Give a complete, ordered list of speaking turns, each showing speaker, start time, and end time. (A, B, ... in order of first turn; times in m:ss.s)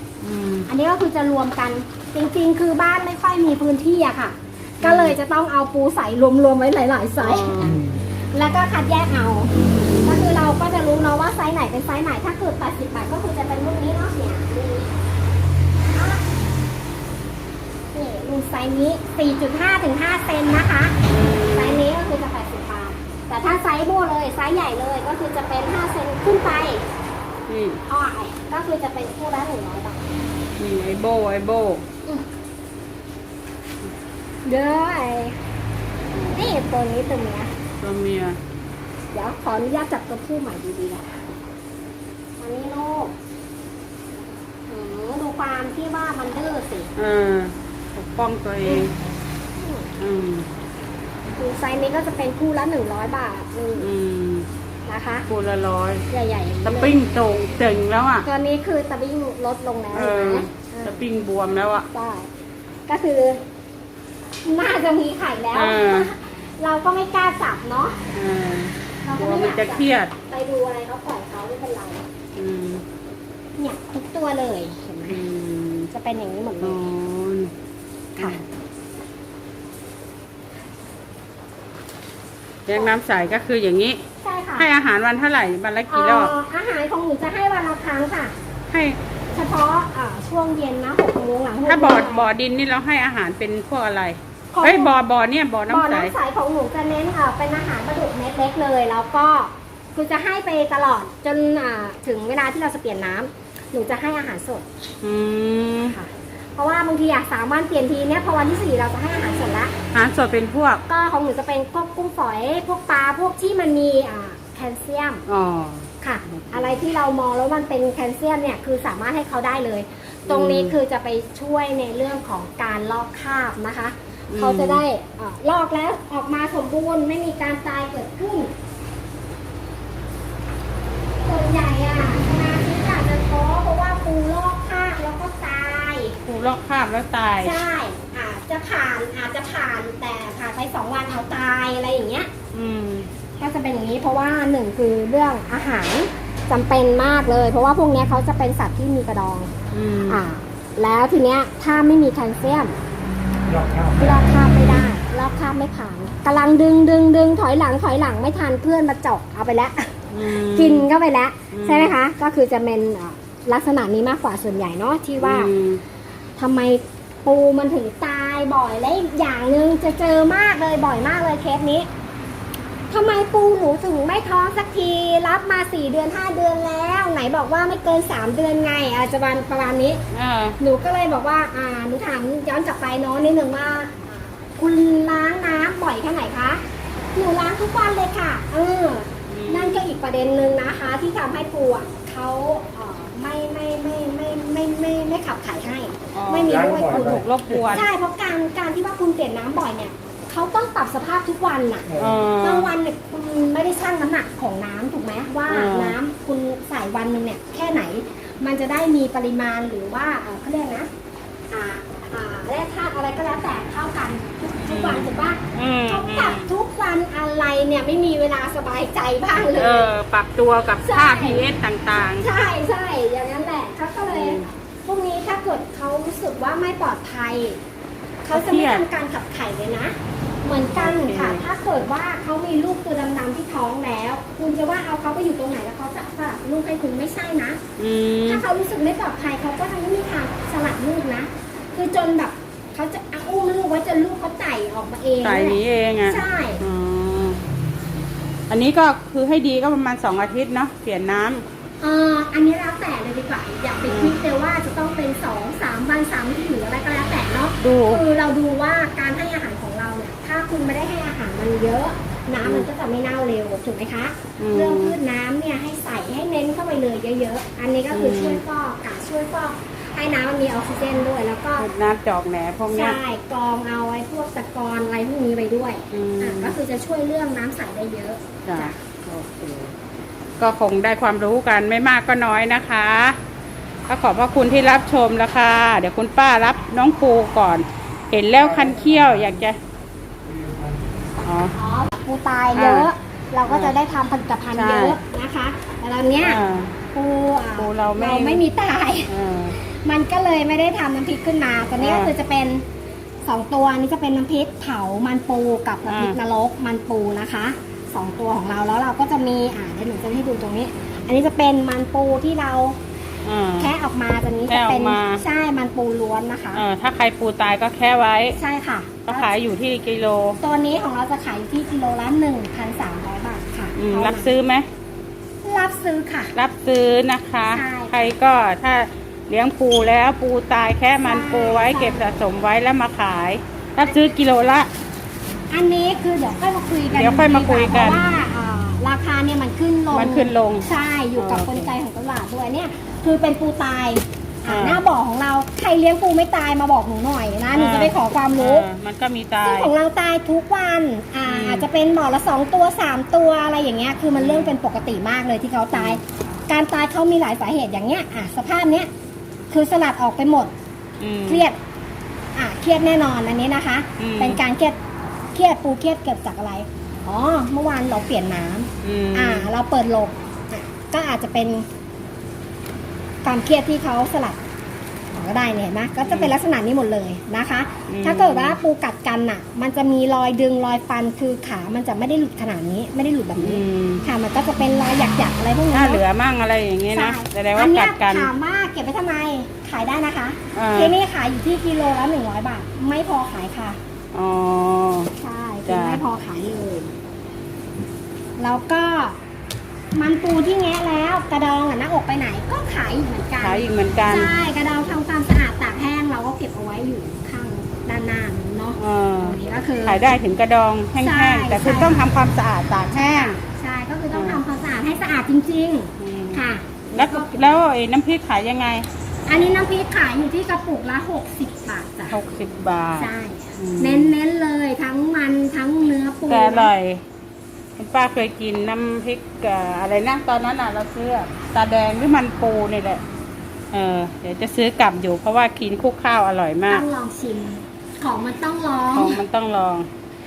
0:00.2-0:00.7 A
0:00.7-0:09.5 B
0:04.8-0:05.2 A
0:07.2-0:07.8 A
0:07.6-0:08.0 C
0:09.7-0:10.1 A
0:10.0-0:14.9 B
0:15.9-0:16.2 B
0:17.9-0:21.0 B
0:21.0-0:21.9 A
0:21.5-0:26.8 B
0:27.5-0:27.8 A
0:27.9-0:30.1 B
0:30.6-0:31.8 A
0:34.4-0:35.4 B
0:36.1-0:36.4 A
0:36.3-0:37.5 B
0:37.8-0:38.4 A
0:39.1-0:41.2 B
0:42.4-0:43.1 B
0:44.7-0:46.9 B
0:47.0-0:48.9 A
0:48.6-0:48.9 B
0:49.6-0:49.9 B
0:50.0-0:50.5 A
0:51.4-0:53.9 B
0:53.8-0:54.5 A
0:54.8-0:55.3 B
0:55.3-0:56.0 A
0:56.1-0:57.0 B
0:56.6-0:58.2 A
0:58.2-1:01.0 B
0:59.9-1:01.9 A
1:01.9-1:02.3 B
1:02.9-1:03.4 B
1:04.4-1:08.0 B
1:05.5-1:06.1 A
1:08.1-1:10.1 A
1:09.0-1:12.0 B
1:12.3-1:12.8 A
1:13.6-1:15.2 B
1:15.1-1:15.9 A
1:15.9-1:16.8 B
1:16.6-1:17.5 A
1:18.2-1:18.4 B
1:22.7-1:24.0 A
1:24.2-1:24.7 B
1:24.6-1:26.3 A
1:25.9-1:28.3 B
1:28.7-1:29.0 A
1:29.3-1:32.3 B
1:31.6-1:36.1 A
1:34.5-1:35.0 B
1:35.7-1:44.6 B
1:45.0-1:46.0 A
1:45.8-1:49.7 B
1:49.9-1:50.8 A
1:50.8-1:55.2 B
1:55.3-1:56.8 A
1:56.0-2:08.5 B
2:00.3-2:00.8 A
2:04.3-2:04.8 A
2:11.2-2:16.2 B
2:16.2-2:17.5 A
2:17.4-2:22.3 B
2:22.5-2:23.1 A
2:23.4-2:29.5 B
2:29.7-2:30.2 A
2:30.0-2:32.8 B
2:33.5-2:34.2 C
2:34.0-2:45.5 B
2:40.1-2:40.9 A
2:41.5-2:41.9 A
2:45.2-2:45.8 A
2:46.4-2:51.9 B
2:52.9-3:00.0 B
3:00.1-3:00.6 A
3:00.6-3:06.6 B
3:07.1-3:30.9 B
3:09.3-3:09.8 A
3:16.1-3:17.9 A
3:16.4-3:17.7 C
3:21.9-3:22.2 C
3:22.0-3:22.7 A
3:25.5-3:26.0 A
3:31.5-3:39.9 B
3:34.7-3:36.5 A
3:39.5-3:42.3 A
3:40.8-3:41.5 B
3:42.0-3:47.6 B
3:44.1-3:44.5 A
3:48.2-3:57.6 B
3:48.3-3:48.8 A
3:50.7-3:51.4 A
3:57.8-3:58.4 A
3:58.3-4:06.6 B
4:05.2-4:07.4 A
4:08.5-4:11.4 A
4:11.8-4:31.7 B
4:13.8-4:14.2 A
4:17.6-4:18.0 A
4:22.4-4:22.7 A
4:24.4-4:25.0 A
4:27.9-4:28.4 A
4:31.6-4:33.0 A
4:32.7-4:38.8 B
4:35.9-4:36.6 A
4:38.4-4:39.7 A
4:40.4-4:43.2 A
4:43.9-4:49.6 A
4:48.4-4:49.3 C
4:50.2-4:50.8 C
4:51.2-4:51.5 A
4:51.5-4:56.4 B
4:52.5-4:52.9 A
4:53.5-4:53.7 A
4:54.5-4:55.0 A
4:56.2-4:56.8 A
4:56.9-5:02.6 B
4:57.5-4:58.4 A
4:59.1-4:59.6 A
5:01.8-5:02.1 A
5:03.2-5:12.8 B
5:05.9-5:06.2 A
5:13.2-5:13.7 A
5:13.6-5:16.6 B
5:14.5-5:15.2 A
5:16.5-5:18.4 A
5:18.4-5:19.3 B
5:19.0-5:20.4 A
5:20.4-5:24.3 B
5:23.7-5:24.6 A
5:25.4-5:26.3 B
5:26.3-5:34.7 A
5:27.4-5:28.1 B
5:31.0-5:32.2 B
5:35.5-5:48.7 B
5:36.9-5:38.0 A
5:39.9-5:41.7 A
5:44.5-5:44.8 A
5:47.5-5:49.7 A
5:49.4-5:58.9 B
5:51.2-5:51.6 A
5:54.1-5:54.5 A
5:55.7-5:56.0 A
5:59.5-6:00.5 B
6:01.0-6:01.4 A
6:01.3-6:01.6 B
6:02.3-6:04.8 B
6:04.0-6:04.4 A
6:05.3-6:11.6 B
6:08.8-6:09.5 A
6:13.2-6:14.4 B
6:15.1-6:26.0 B
6:16.0-6:16.3 A
6:17.9-6:18.6 A
6:23.4-6:24.0 A
6:25.7-6:28.3 A
6:26.9-6:33.8 B
6:30.5-6:31.0 A
6:34.1-6:35.1 A
6:35.2-6:36.9 B
6:35.6-6:36.0 A
6:38.4-6:39.2 B
6:39.9-6:50.1 B
6:43.4-6:44.3 A
6:48.8-6:53.4 A
6:51.0-6:52.1 B
6:52.9-6:57.6 B
6:54.1-6:54.4 A
6:56.0-6:58.8 A
6:59.3-7:02.2 B
7:02.1-7:04.1 A
7:03.0-7:06.7 B
7:06.3-7:07.0 A
7:07.8-7:13.0 A
7:13.7-7:16.8 A
7:16.7-7:19.2 B
7:18.9-7:19.9 A